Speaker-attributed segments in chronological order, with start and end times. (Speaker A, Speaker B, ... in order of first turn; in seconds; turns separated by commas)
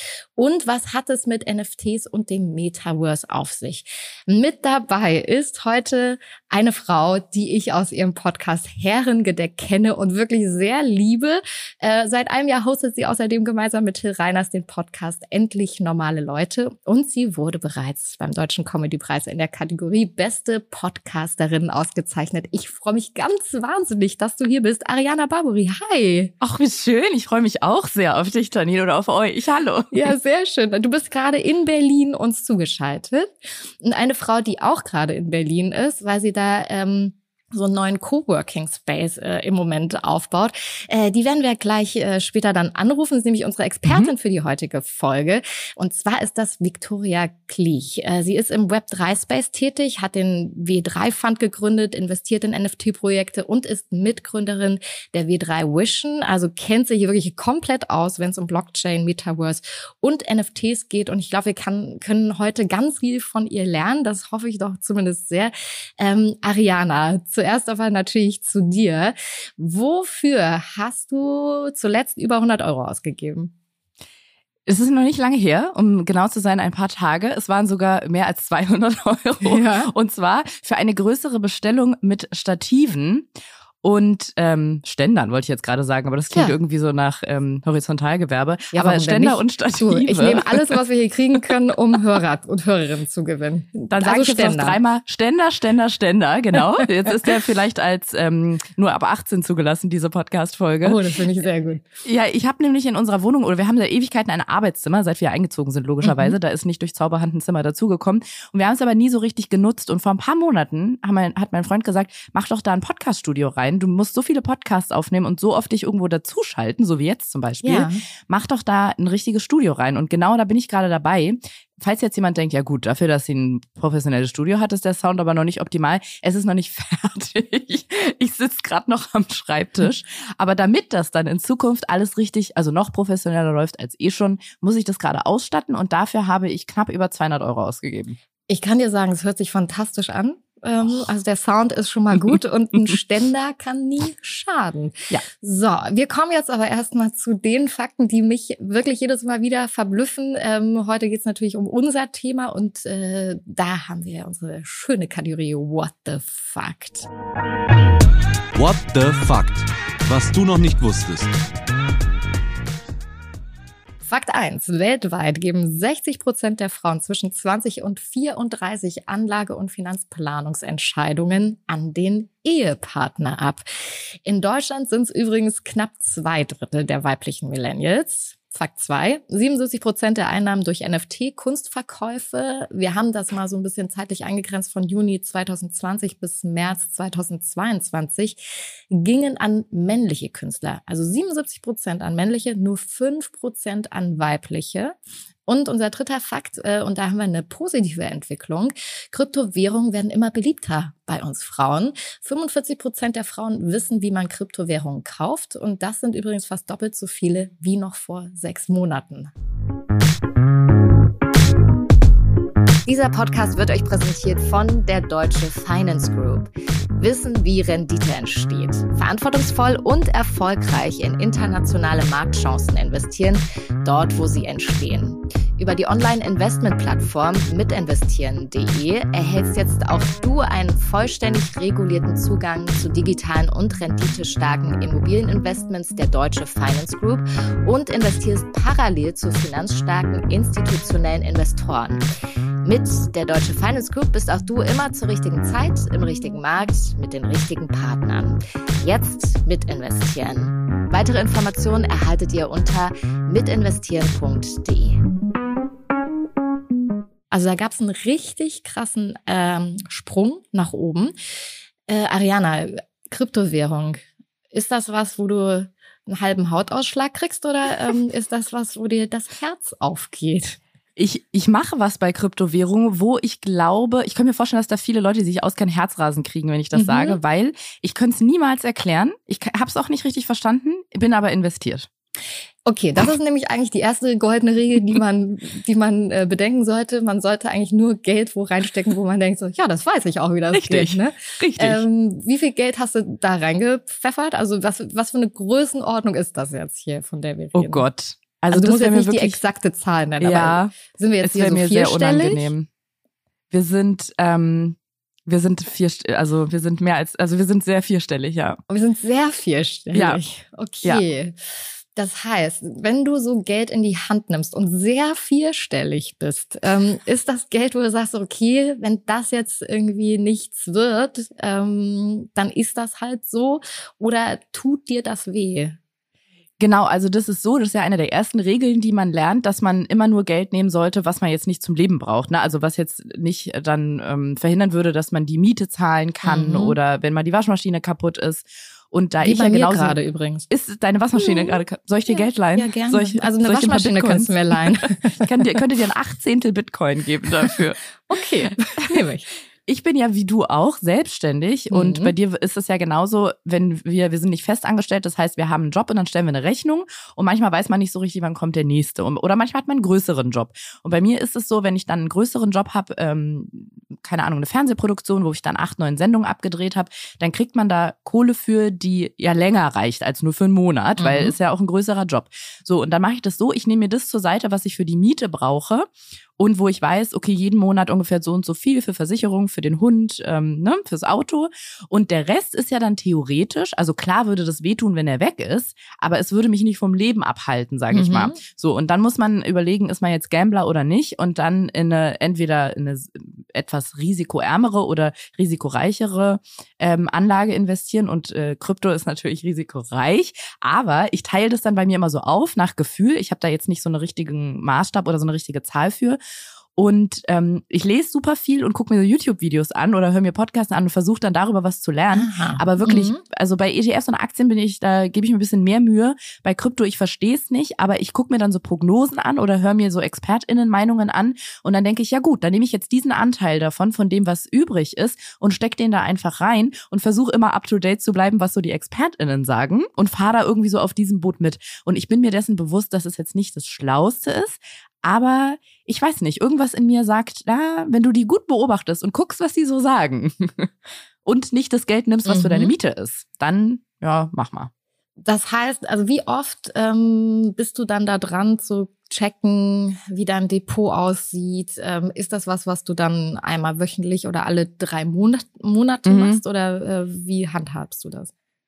Speaker A: 0.4-26.3, Speaker B: 26.4-30.1, Speaker A: 29.9-73.5, Speaker B: 43.9-44.1, Speaker B: 74.7-83.3, Speaker A: 79.4-79.9, Speaker B: 83.8-90.7, Speaker A: 88.7-94.8, Speaker B: 93.9-101.0, Speaker A: 100.8-101.8, Speaker B: 102.0-138.2, Speaker A: 106.0-106.4, Speaker A: 117.6-118.0, Speaker A: 138.5-157.1, Speaker C: 158.6-161.3, Speaker A: 164.0-173.7, Speaker A: 174.2-209.3, Speaker A: 212.9-242.0, Speaker A: 242.6-255.0, Speaker A: 257.3-261.1, Speaker A: 261.9-270.6, Speaker B: 271.0-281.9, Speaker A: 276.7-277.2, Speaker A: 282.6-297.9, Speaker B: 290.5-291.8, Speaker B: 297.6-299.4, Speaker A: 298.5-302.5, Speaker B: 300.2-302.7, Speaker B: 303.5-308.6, Speaker A: 308.7-311.4, Speaker B: 309.9-310.2, Speaker A: 311.9-325.8, Speaker B: 326.6-340.0, Speaker A: 336.2-336.8, Speaker A: 339.2-340.5, Speaker B: 340.5-347.8, Speaker A: 341.1-345.3, Speaker A: 348.1-349.3, Speaker B: 349.7-406.2, Speaker A: 351.7-352.1, Speaker A: 371.0-371.4, Speaker A: 387.9-388.4, Speaker B: 406.8-440.7, Speaker A: 412.1-413.2, Speaker B: 441.2-444.7, Speaker A: 442.3-442.8, Speaker A: 445.2-458.3, Speaker B: 456.1-456.4